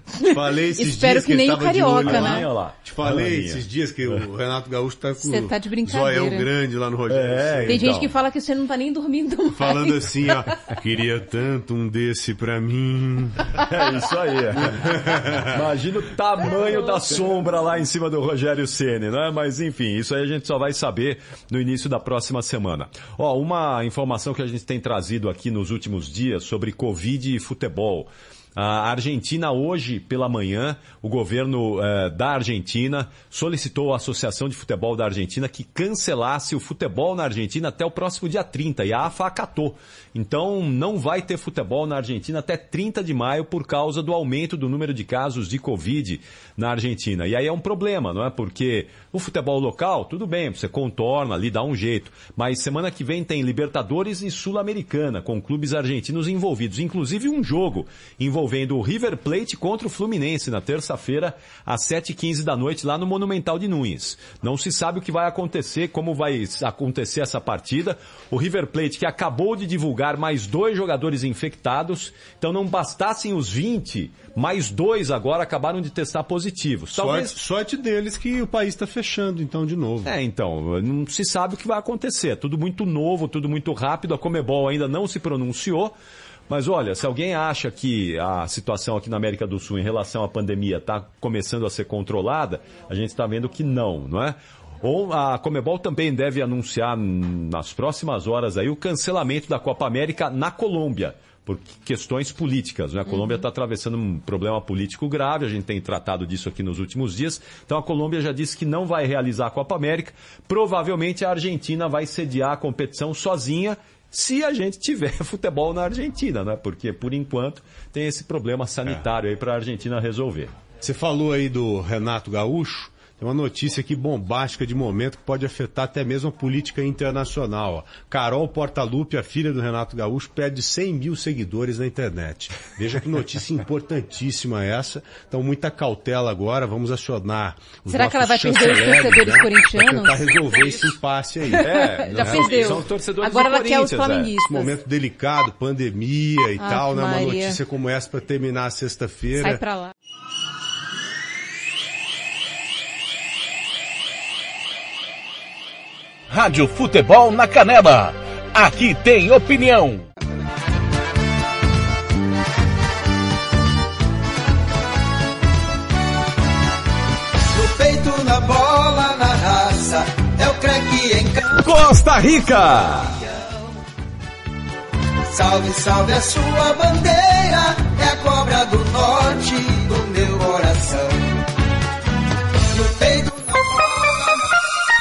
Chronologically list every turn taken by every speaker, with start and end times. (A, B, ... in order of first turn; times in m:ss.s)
0:00.2-0:08.0 A
0:00.2-0:02.4 B
0:02.1-0:04.2 C
0:05.2-0:06.5 B
0:07.1-0:08.1 C
0:07.7-0:10.0 B
0:09.5-0:13.6 A
0:13.7-0:14.8 C
0:14.5-0:15.6 A
0:15.5-1:17.4 C
1:16.9-1:20.1 A
1:20.0-1:26.0 C
1:26.5-2:00.5 C
2:00.8-2:22.8 A
2:18.0-2:20.6 B
2:21.6-2:24.7 B
2:21.6-2:24.4 C
2:24.4-2:29.6 A
2:26.6-2:27.5 B
2:29.4-2:29.9 B
2:36.3-2:40.1 D
2:47.5-2:53.7 E
2:51.6-2:53.2 C
2:55.3-3:01.2 E
3:02.7-3:04.4 E